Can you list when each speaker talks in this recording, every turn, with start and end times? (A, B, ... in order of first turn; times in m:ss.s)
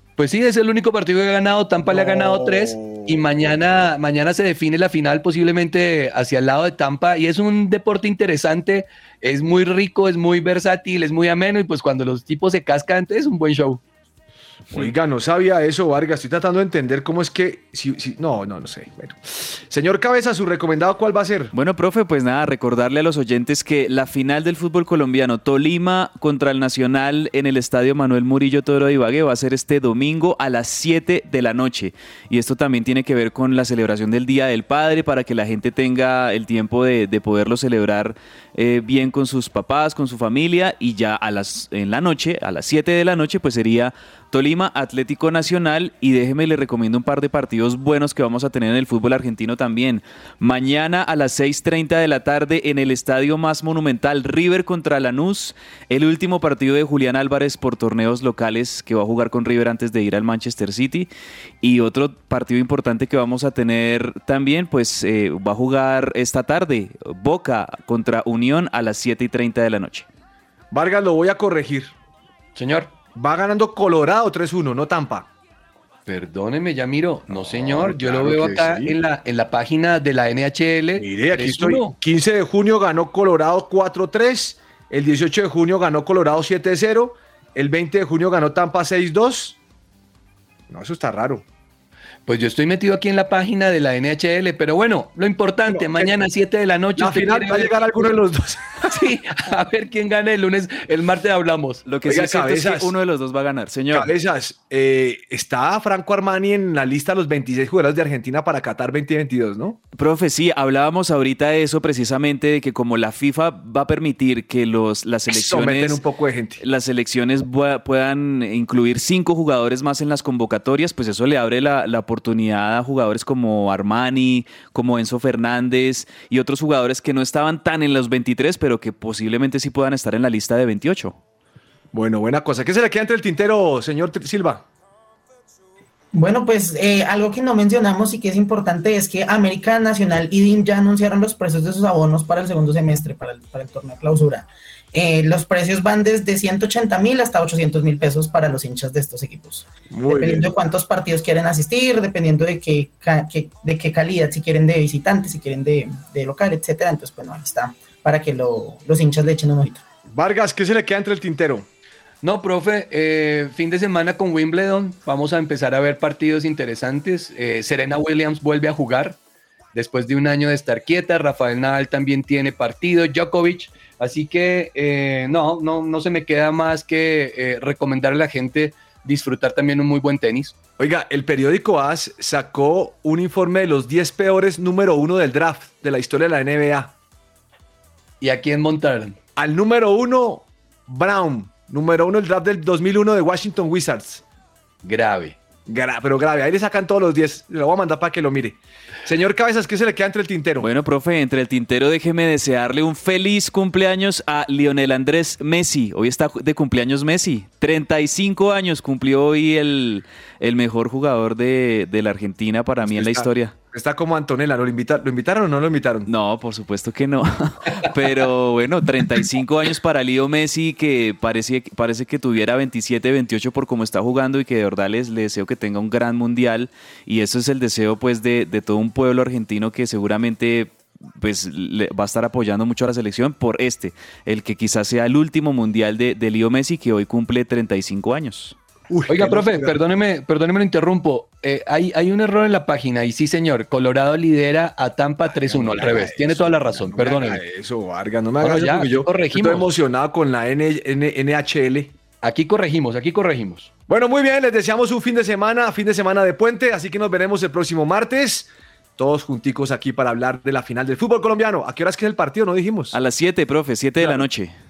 0:00.2-0:13.8 A
0:01.9-0:03.6 B
0:14.7-0:21.5 B
0:21.5-1:01.1 C
1:01.6-1:10.1 C
1:10.7-1:11.9 B
1:12.6-1:12.9 A
1:13.1-1:15.3 B
1:16.1-1:22.0 A
1:17.3-1:19.0 B
1:21.0-1:29.6 B
1:30.7-1:31.4 B
1:32.3-1:38.2 A
1:35.7-1:36.2 B
1:37.0-1:38.9 B
1:38.8-1:41.8 A
1:41.9-1:44.1 C
1:42.0-1:42.9 B
1:43.9-1:49.8 B
1:50.0-1:56.0 C
1:55.3-1:56.6 B
1:56.6-2:11.2 C
2:11.9-2:14.6 B
2:16.1-2:39.8 D
2:29.9-2:30.5 B
2:40.1-2:41.7 B
2:42.2-2:49.2 A
2:49.7-3:00.6 A
3:00.8-3:06.9 B
3:08.2-3:09.2 A
3:09.4-3:14.2 B
3:14.8-3:15.4 A
3:15.7-3:20.7 B
3:20.6-3:33.6 C
3:32.8-3:36.1 B
3:36.1-3:58.6 C
3:58.9-3:59.8 B
3:59.1-4:07.4 A
4:05.3-4:12.0 B
4:08.4-4:09.7 A
4:12.2-4:13.7 A
4:13.9-4:23.0 B
4:22.9-4:24.5 C